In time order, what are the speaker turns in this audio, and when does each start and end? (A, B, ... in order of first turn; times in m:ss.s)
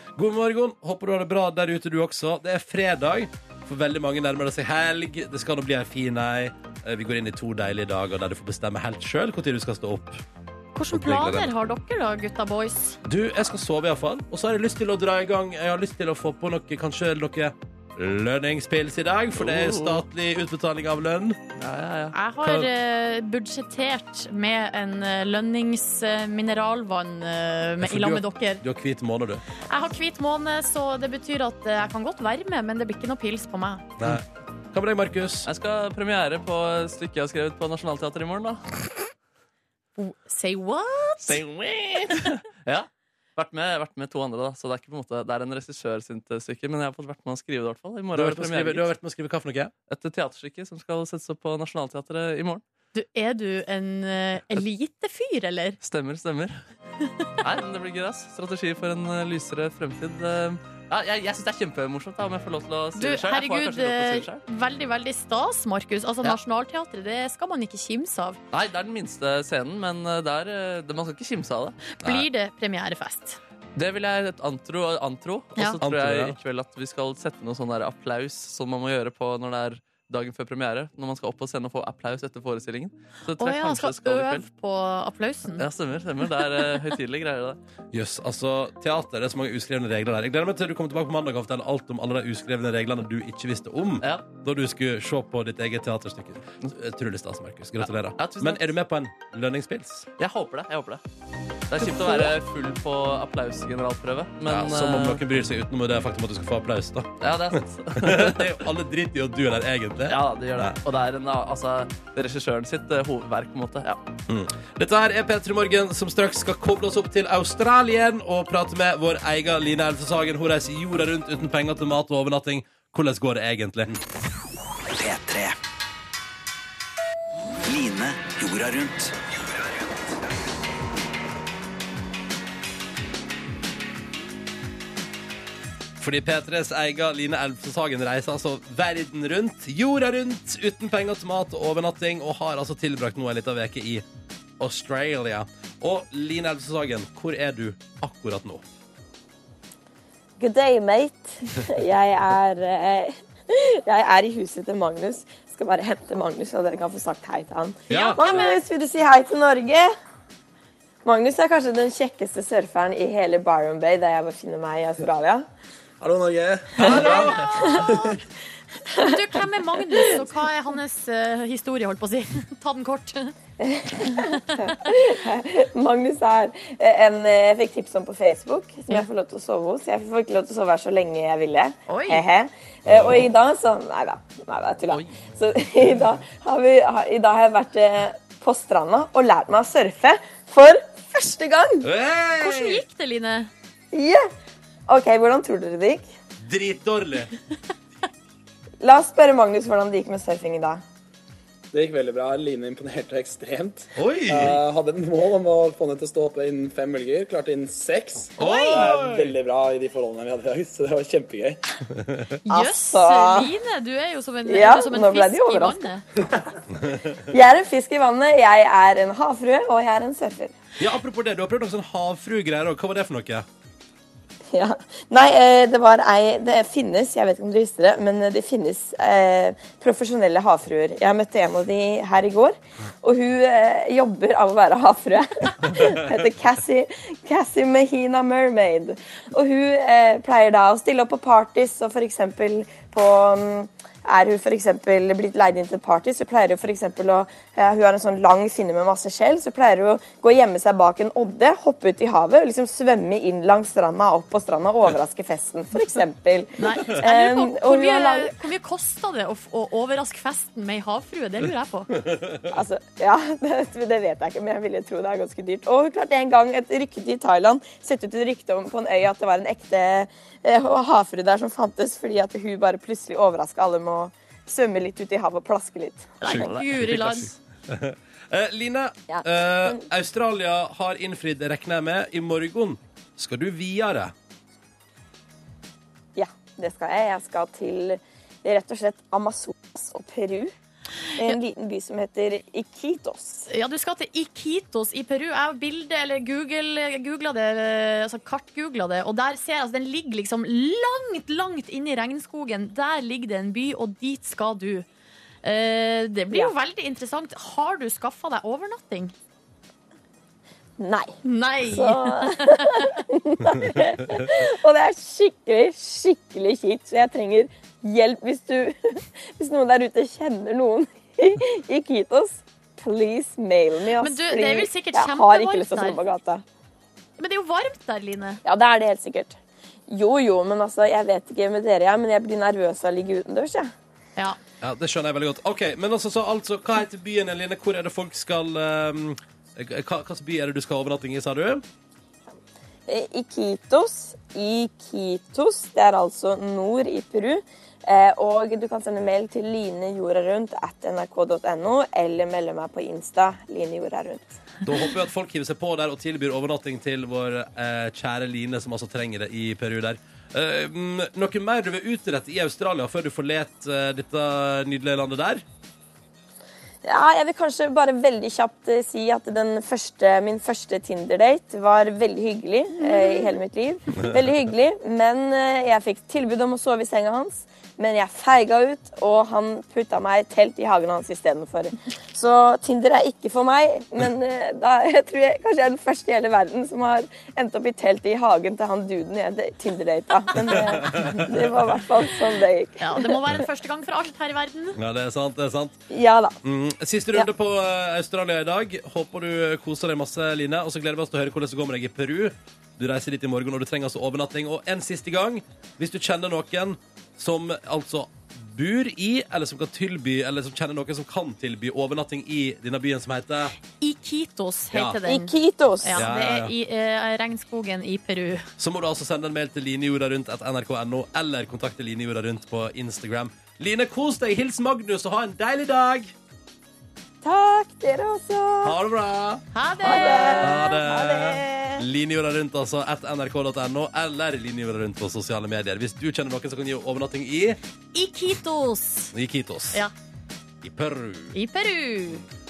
0:00.2-0:10.2 A
0:10.8-0:13.0 B
0:10.9-0:11.5 A
0:13.0-0:21.4 A
0:19.4-0:20.0 C
0:21.6-0:22.2 C
0:22.1-0:28.6 B
0:22.4-0:22.7 A
0:27.8-0:29.4 A
0:29.7-0:33.9 B
0:34.0-0:35.5 A
0:35.5-0:38.7 C
0:40.0-0:41.4 B
0:41.3-0:48.9 C
0:48.1-0:49.7 A
0:49.9-0:52.6 C
0:52.9-0:55.8 B
0:55.8-0:56.6 C
0:57.4-1:04.4 C
1:03.0-1:08.4 B
1:08.5-1:11.8 C
1:11.9-1:13.4 B
1:12.0-1:12.3 A
1:13.8-1:24.5 C
1:15.8-1:16.4 A
1:23.4-1:25.6 B
1:25.6-1:27.6 C
1:27.9-1:40.1 A
1:34.0-1:34.3 C
1:38.1-1:38.7 C
1:40.2-1:41.0 C
1:41.7-1:45.2 C
1:44.5-1:47.3 A
1:47.2-1:48.6 C
1:48.0-1:50.8 A
1:50.1-1:54.0 C
1:54.3-2:04.0 A
2:05.0-2:05.6 D
2:07.6-2:09.2 D
2:16.0-2:24.0 A
2:24.6-2:28.6 A
2:30.4-2:39.9 E
2:37.9-2:38.2 A
2:38.2-2:38.6 B
2:41.0-2:45.5 E
2:46.0-2:48.1 F
2:46.8-2:47.9 A
2:46.8-2:48.2 B
2:49.0-2:49.2 E
2:49.0-2:53.3 B
2:49.9-2:50.3 E
2:53.6-3:11.9 E
2:54.1-2:55.0 B
3:01.9-3:02.3 B
3:02.9-3:03.3 A
3:11.8-3:12.8 A
3:12.4-3:13.5 B
3:13.9-3:14.3 E
3:14.9-3:16.1 E
3:16.4-3:17.3 A
3:18.8-3:20.8 E
3:21.7-3:31.6 F
3:24.0-3:24.6 A
3:28.4-3:28.9 B
3:28.4-3:29.3 A
3:32.5-3:36.0 B
3:32.5-3:33.5 E
3:34.5-3:35.8 E
3:37.3-3:40.6 E
3:40.8-3:43.5 A
3:44.5-4:18.4 E
4:16.6-4:21.9 B
4:22.5-4:36.2 E
4:36.2-4:37.3 B
4:36.3-4:44.1 A
4:36.3-4:36.8 C
4:39.1-4:39.8 E
4:46.2-4:50.5 E
4:51.2-4:53.5 E
4:53.5-5:04.8 B
5:05.4-5:09.1 B
5:10.8-5:26.4 E
5:11.2-5:13.0 B
5:24.0-5:26.0 B
5:27.2-5:28.4 B
5:28.4-5:29.4 E
5:29.9-5:33.7 E
5:34.6-5:41.6 A
5:42.9-5:54.4 E
5:54.6-6:05.4 A
6:06.8-6:33.2 E
6:12.8-6:13.4 B
6:30.4-6:31.1 B
6:31.0-6:31.3 A
6:32.8-6:34.8 B
6:34.8-6:35.8 A
6:35.9-6:36.4 E
6:36.4-6:53.5 A
6:53.8-6:58.5 B
6:54.7-6:55.0 A
6:55.0-6:56.1 E
6:55.9-6:56.5 A
6:58.6-7:06.1 A
7:07.2-7:08.8 E
7:08.6-7:17.6 A
7:09.5-7:10.8 B
7:09.8-7:11.8 E
7:17.9-7:19.1 B
7:19.1-7:19.8 A
7:20.6-7:21.4 A
7:21.3-7:22.2 B